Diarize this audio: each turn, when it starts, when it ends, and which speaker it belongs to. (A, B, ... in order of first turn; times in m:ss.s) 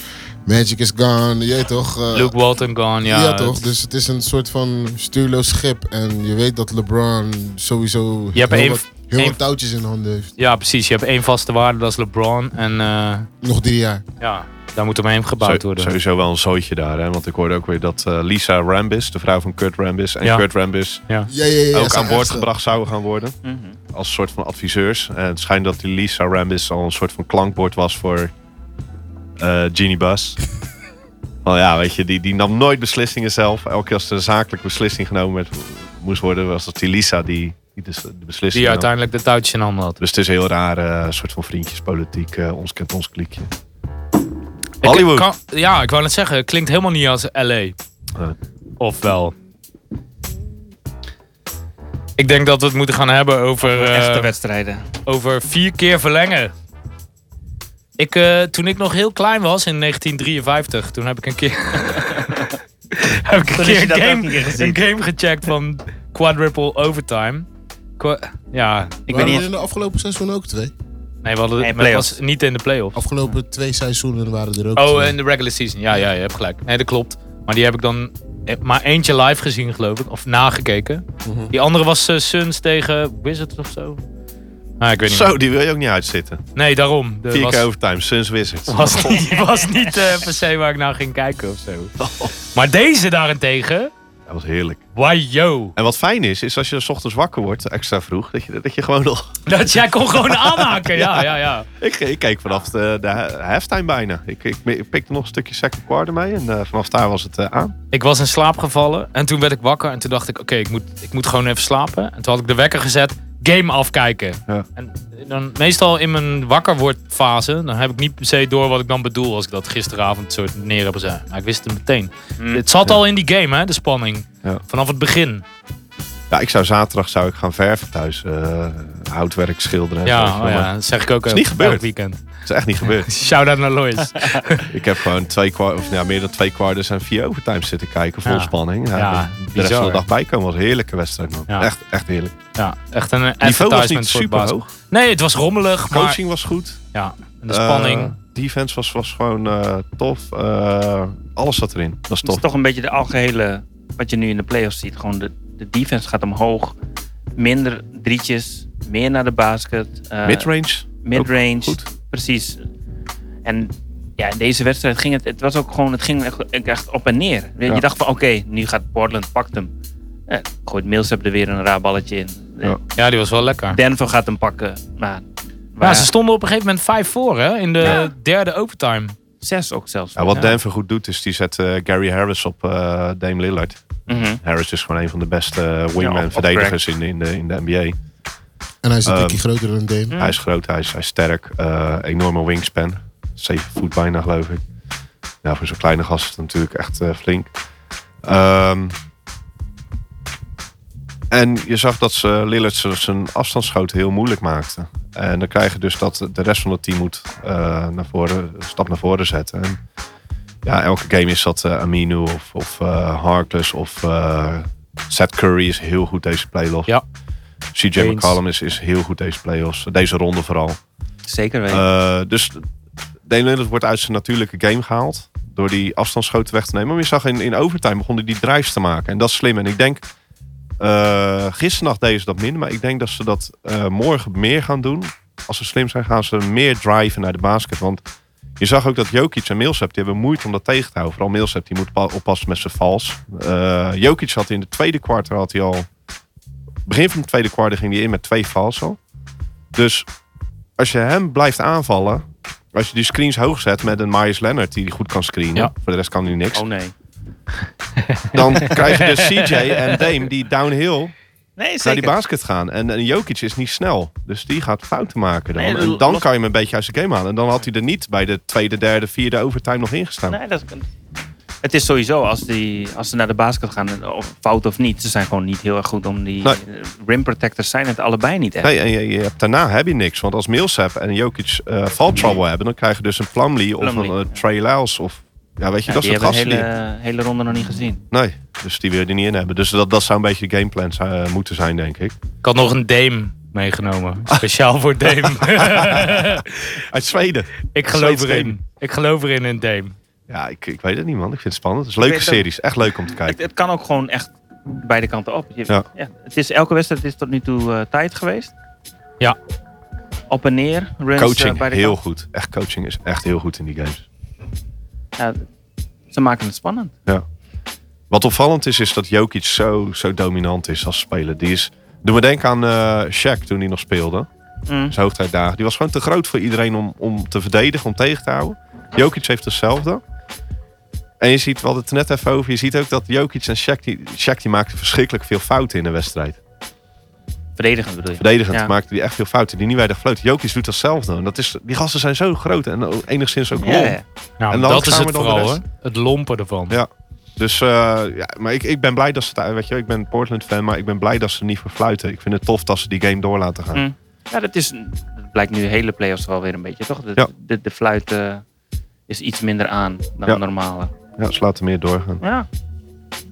0:00.4-0:02.3 A
0:02.1-0:03.7 B
0:03.0-0:10.3 A
0:08.3-0:09.4 B
0:10.4-0:13.3 B
0:13.4-0:14.0 A
0:14.2-0:15.9 B
0:15.4-0:21.0 C
0:21.3-0:22.5 A
0:21.7-0:23.4 C
0:23.4-0:23.8 D
0:23.9-0:28.3 C
0:29.4-0:30.4 C
0:31.4-0:38.9 C
0:38.5-0:40.0 B
0:40.0-0:43.5 C
0:44.8-0:45.3 C
0:44.8-0:47.8 B
0:48.8-0:49.4 B
0:52.2-0:54.3 B
0:53.6-0:54.8 D
0:55.0-0:56.5 B
0:58.0-1:07.5 B
1:03.5-1:04.8 D
1:08.0-1:09.4 B
1:09.1-1:09.4 D
1:09.1-1:10.7 A
1:11.2-1:13.0 B
1:11.6-1:12.2 D
1:13.0-1:15.2 A
1:14.8-1:24.0 B
1:21.2-1:21.5 A
1:24.8-1:25.3 B
1:25.1-1:26.4 C
1:26.6-1:27.6 B
1:27.3-1:29.3 C
1:28.7-1:31.9 B
1:32.0-1:32.4 C
1:32.5-1:33.9 B
1:34.3-1:34.8 C
1:35.0-1:35.8 B
1:35.8-1:39.4 C
1:39.5-1:41.7 B
1:40.3-1:47.8 C
1:47.9-2:05.4 B
2:06.3-2:10.7 C
2:10.0-2:12.2 B
2:11.3-2:11.9 C
2:12.4-2:13.1 C
2:12.9-2:14.7 B
2:14.7-2:22.4 C
2:18.2-2:20.0 B
2:22.6-2:26.2 B
2:23.4-2:24.7 C
2:25.9-2:26.8 C
2:26.9-2:28.1 B
2:27.5-2:32.4 C
2:32.2-2:36.8 D
2:37.4-2:40.5 D
2:40.2-2:41.8 C
2:41.0-2:42.6 D
2:43.4-2:49.7 D
2:50.3-2:52.8 D
2:53.0-2:53.8 B
2:53.7-2:56.1 D
2:55.8-2:59.2 B
2:57.8-2:58.1 D
2:59.4-3:00.6 D
3:00.2-3:03.8 C
3:04.1-3:04.4 D
3:04.4-3:08.0 C
3:06.0-3:06.8 D
3:08.8-3:10.2 A
3:09.1-3:09.4 C
3:10.1-3:10.4 D
3:10.2-3:14.6 C
3:15.4-3:17.6 C
3:18.2-3:19.0 C
3:21.3-3:29.8 C
3:30.6-3:36.9 C
3:37.7-3:40.8 C
3:38.0-3:38.4 B
3:41.3-3:41.8 D
3:41.7-3:42.6 C
3:43.2-3:50.1 C
3:50.8-3:58.0 C
3:58.6-4:05.9 C
4:06.9-4:09.0 C
4:09.7-4:10.1 C
4:10.8-4:16.6 C
4:16.5-4:16.9 D
4:18.0-4:18.4 B
4:18.3-4:21.1 C
4:21.6-4:22.2 D
4:21.8-4:30.4 C
4:25.6-4:26.3 D
4:30.3-4:30.9 D
4:31.6-4:38.7 D
4:38.6-4:46.6 C
4:42.2-4:42.4 D
4:43.8-4:44.4 D
4:45.9-4:48.0 D
4:48.1-4:52.2 C
4:52.4-4:56.7 B
4:55.6-4:58.6 C
4:57.7-5:00.0 B
5:00.3-5:03.4 C
5:02.0-5:02.5 D
5:03.2-5:08.5 D
5:10.3-5:12.0 D
5:11.2-5:14.0 C
5:15.2-5:15.4 D
5:16.1-5:16.9 D
5:18.1-5:24.3 C
5:24.7-5:25.0 D
5:24.9-5:30.0 C
5:31.2-5:36.4 C
5:37.6-5:38.7 D
5:38.2-5:44.0 C
5:43.6-5:44.0 D
5:44.4-5:46.8 B
5:44.5-5:45.6 C
5:46.7-5:53.8 C
5:53.7-5:58.4 D
5:59.1-6:00.9 D
6:01.2-6:02.2 C
6:02.2-6:02.5 D